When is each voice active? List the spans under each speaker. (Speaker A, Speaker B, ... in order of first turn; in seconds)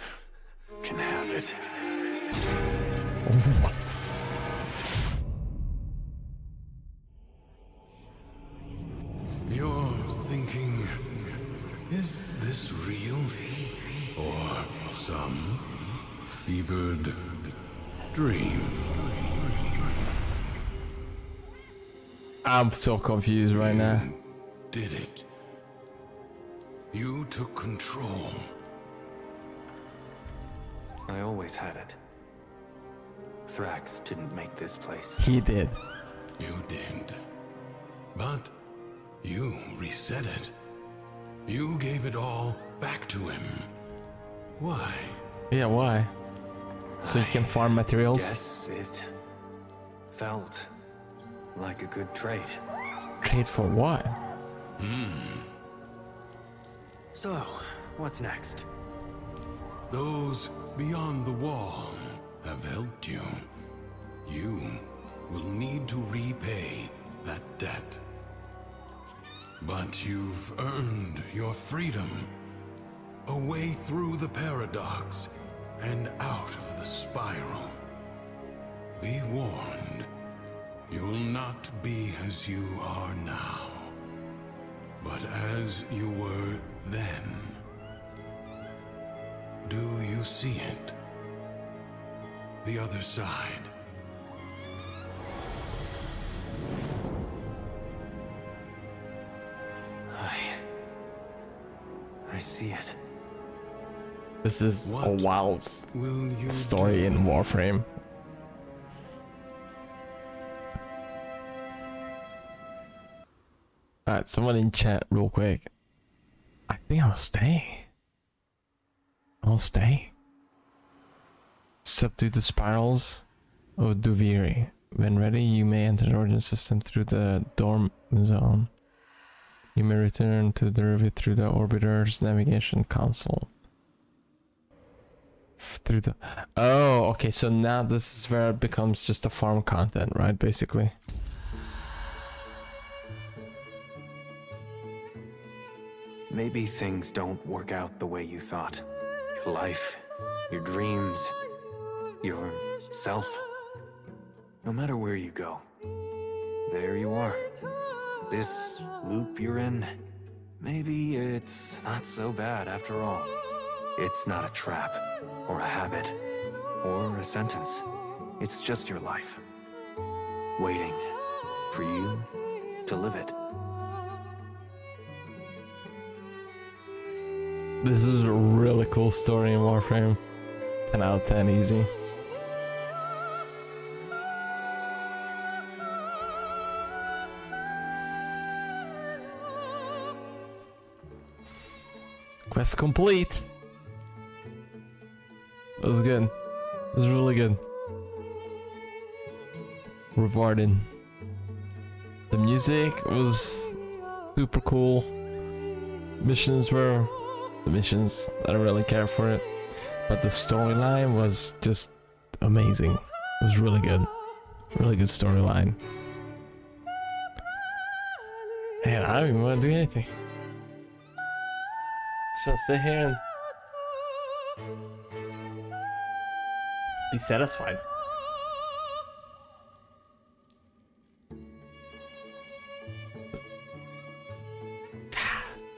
Speaker A: 0.8-1.6, 31.1-32.0, 33.5-35.2, 47.0-49.1, 50.1-50.7, 51.5-52.6, 57.1-58.7, 100.1-100.6, 102.3-103.0, 146.3-151.3, 152.2-153.4, 154.7-155.6, 156.7-157.4, 158.3-160.0, 160.6-163.3, 164.0-166.2, 166.8-167.9, 168.4-169.4, 170.6-171.1, 171.7-172.3, 172.9-173.4
Speaker B: 3.3-3.9, 22.4-24.1, 35.2-35.8, 45.5-46.1, 47.0-48.3, 53.2-54.1, 104.4-105.9, 106.5-107.9, 114.1-115.7, 116.7-117.9, 119.4-120.1, 121.8-123.3, 123.8-128.7, 129.8-133.5, 135.6-140.9, 177.8-180.2, 180.9-181.9, 192.5-193.5, 195.8-196.3, 196.9-197.6, 200.2-200.9, 202.3-203.8, 204.3-205.1, 206.2-207.1, 207.6-209.5, 210.1-214.1, 214.7-215.8, 218.8-220.1, 222.3-223.2, 227.1-227.8, 235.2-235.4
Speaker C: 9.5-11.3, 11.9-17.6, 18.1-19.7, 23.5-24.2, 24.7-25.3, 26.9-28.4, 36.4-37.2, 38.1-38.5, 39.2-40.5, 41.5-43.7, 44.6-45.2, 54.8-55.5, 59.9-63.5, 64.2-68.0, 69.6-72.3, 73.3-77.8, 79.0-80.1, 80.9-83.9, 85.0-87.6, 89.7-91.0, 92.6-93.7, 104.8-105.3, 105.9-107.6